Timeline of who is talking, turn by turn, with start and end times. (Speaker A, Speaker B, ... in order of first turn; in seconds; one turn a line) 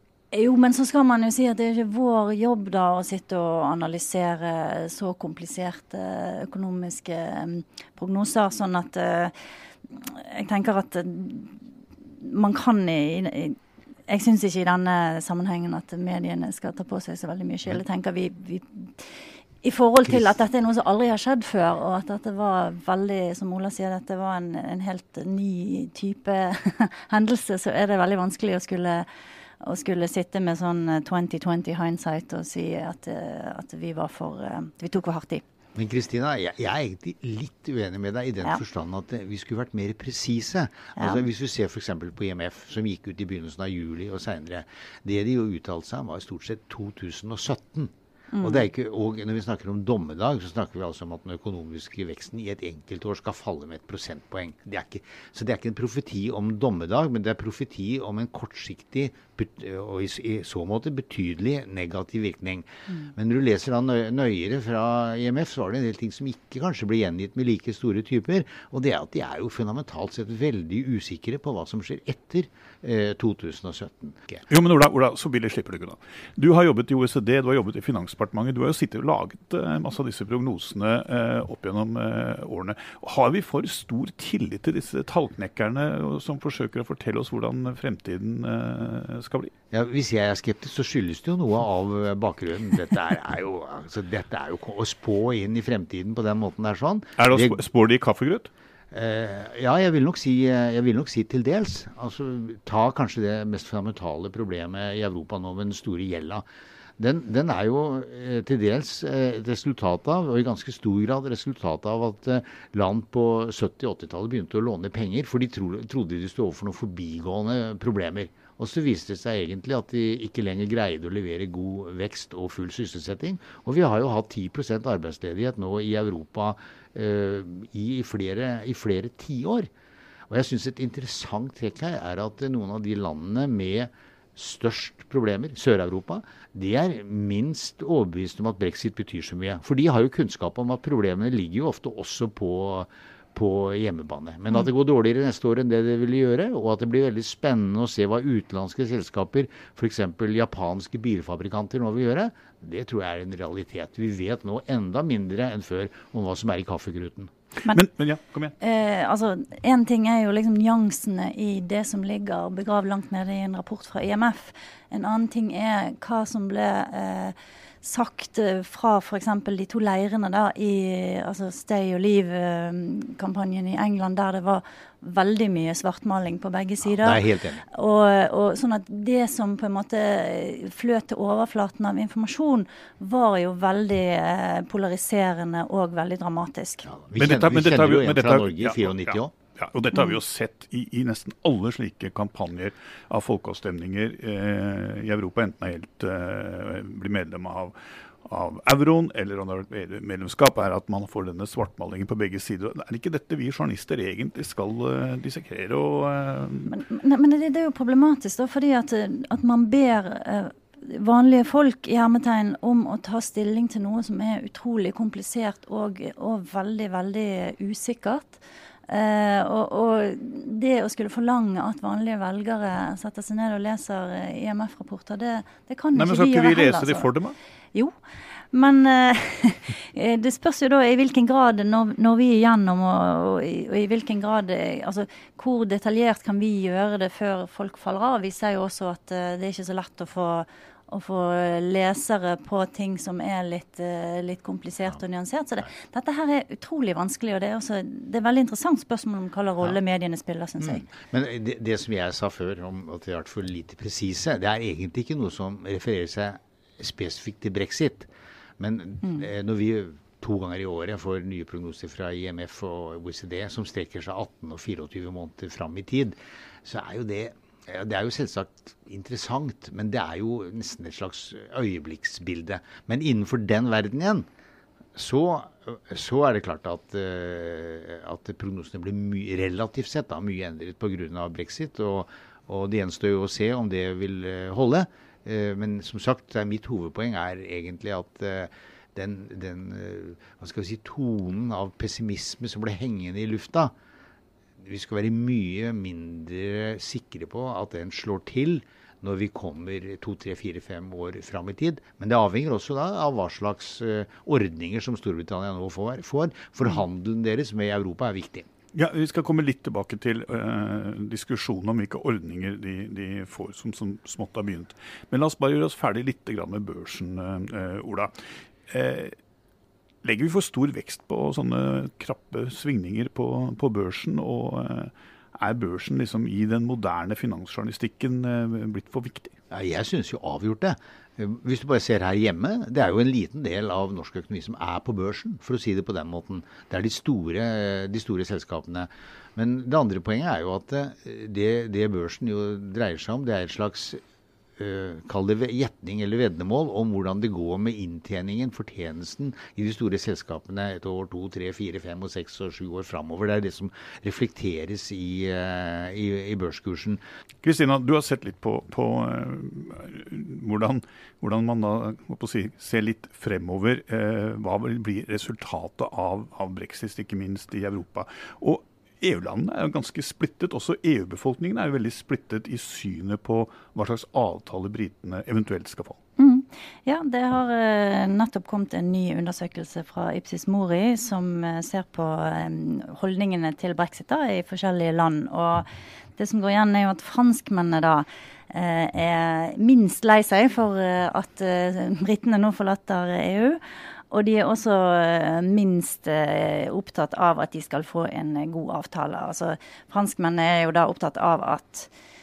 Speaker A: 0.3-9.3
Speaker A: 9.9-11.7
Speaker A: 12.2-13.6
Speaker A: 14.1-29.1
Speaker A: 29.6-35.4
Speaker B: 35.7-74.4
Speaker A: 41.0-41.2
Speaker A: 48.3-48.6
Speaker C: 74.5-89.5
Speaker B: 89.7-97.6
Speaker C: 97.2-98.5
Speaker B: 98.9-106.4
Speaker B: 107.0-129.7
Speaker B: 130.3-157.3
Speaker C: 157.7-158.5
Speaker A: 158.6-186.9
Speaker B: 176.8-177.6
Speaker B: 186.8-189.3
Speaker C: 187.2-206.8
Speaker A: 189.9-190.2
Speaker A: 206.7-227.1
Speaker C: 225.9-227.3
Speaker A: 228.5-250.9
Speaker B: 250.6-274.3
Speaker B: 274.9-293.7
Speaker B: 294.6-308.5
Speaker C: 308.7-318.1
Speaker C: 318.7-319.1
Speaker C: 320.0-329.3
Speaker B: 329.5-344.0
Speaker B: 344.6-357.0
Speaker C: 357.4-376.0
Speaker A: 376.2-385.7
Speaker A: 386.2-393.6
Speaker A: 394.1-401.9